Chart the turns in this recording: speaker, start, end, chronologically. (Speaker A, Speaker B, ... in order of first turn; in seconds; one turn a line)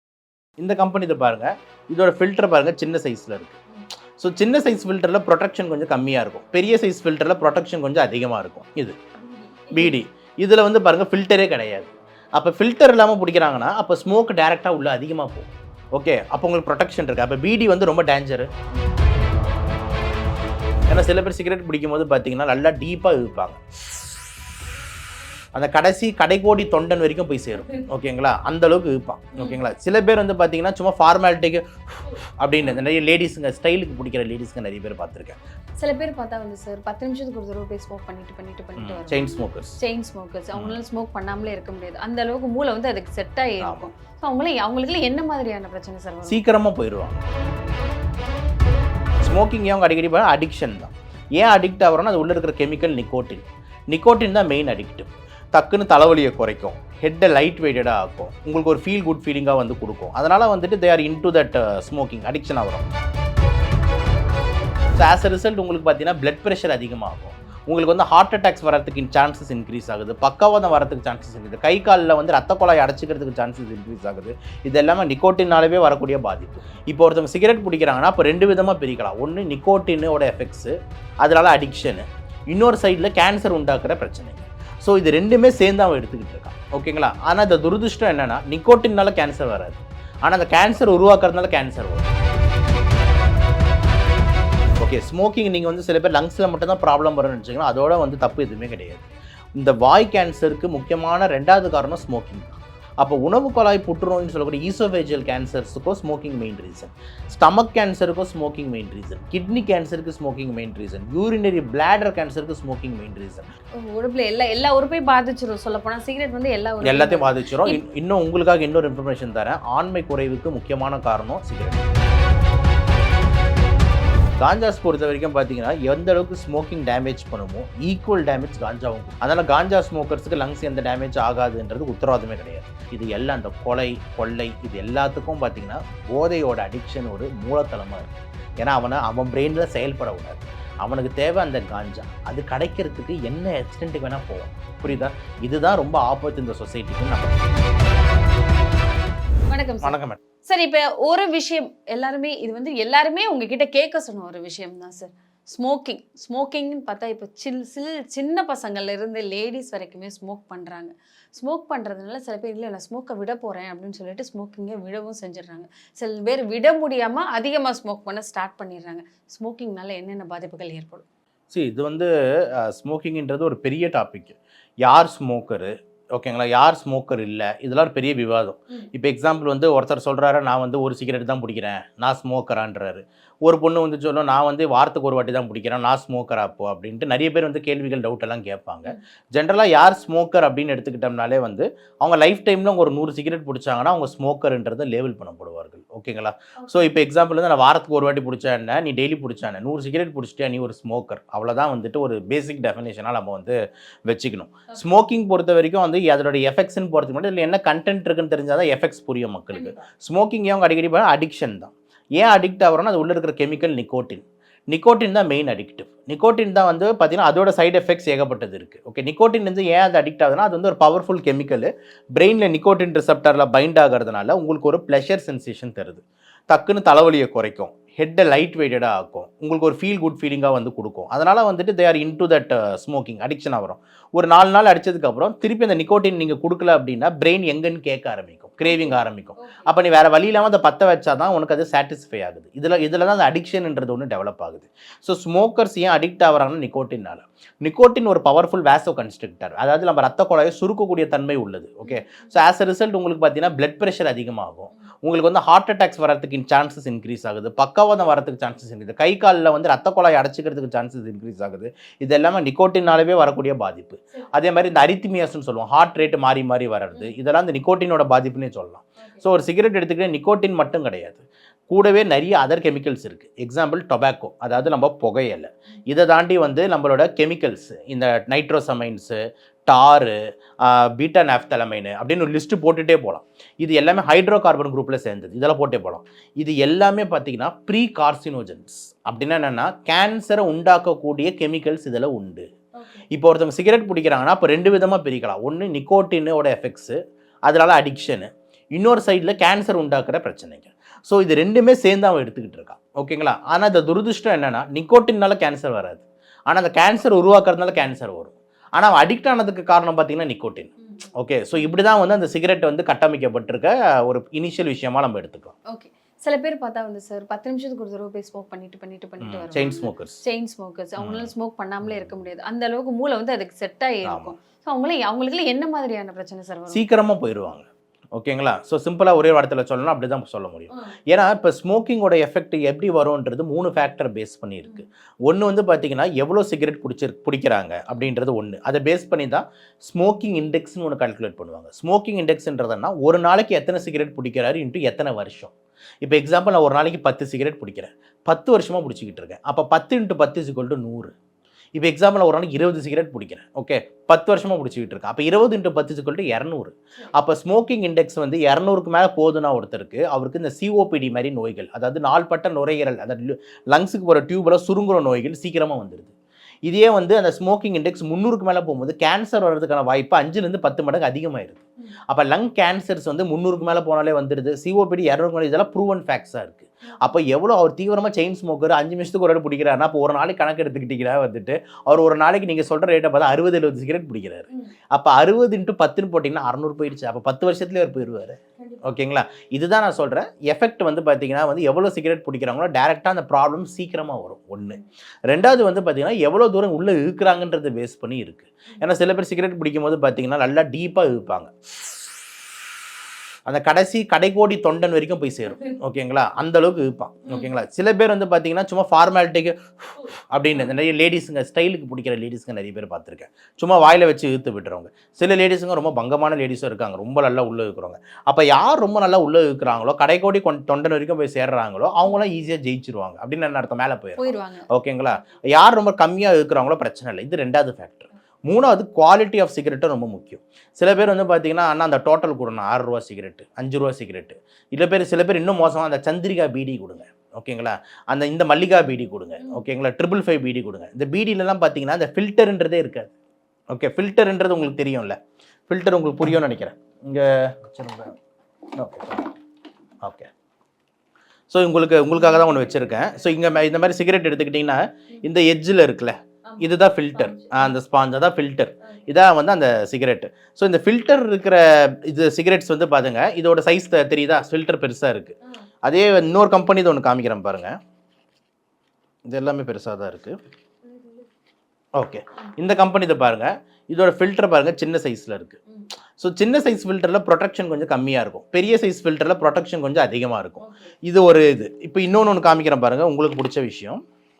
Speaker A: 0.6-3.6
Speaker A: 4.2-9.0
Speaker B: 9.3-9.9
Speaker A: 9.7-18.5
Speaker A: 20.9-23.6
Speaker A: 25.6-35.4
Speaker B: 35.8-46.4
Speaker A: 38.8-39.8
Speaker A: 40.5-40.8
Speaker A: 43.6-43.9
Speaker A: 46.3-47.2
Speaker A: 49.2-62.9
Speaker A: 65.0-92.1
Speaker A: 94.8-113.5
Speaker B: 113.8-117.8
Speaker A: 116.8-121.9
Speaker A: 124.4-147.4
Speaker B: 149.5-171.1
Speaker A: 149.8-150.2
Speaker A: 171.5-292.5
Speaker B: 238.7-239.7
Speaker A: 293.1-315.6
Speaker B: 315.7-326.9
Speaker A: 319.2-320.2
Speaker A: 321.0-321.3
Speaker A: 321.9-322.1
Speaker A: 324.1-324.4
Speaker A: 326.7-351.1
Speaker A: 351.8-366.1
Speaker A: 366.7-401.5
Speaker A: 403.5-443.1
Speaker B: 424.2-424.7
Speaker A: 443.7-445.2
Speaker A: 445.7-448.1
Speaker A: 448.8-449.3
Speaker A: 450.0-450.3
Speaker A: 451.5-467.8
Speaker B: 457.3-457.6
Speaker A: 469.3-470.4
Speaker A: 472.0-475.6
Speaker A: 476.2-484.0
Speaker B: 480.6-480.9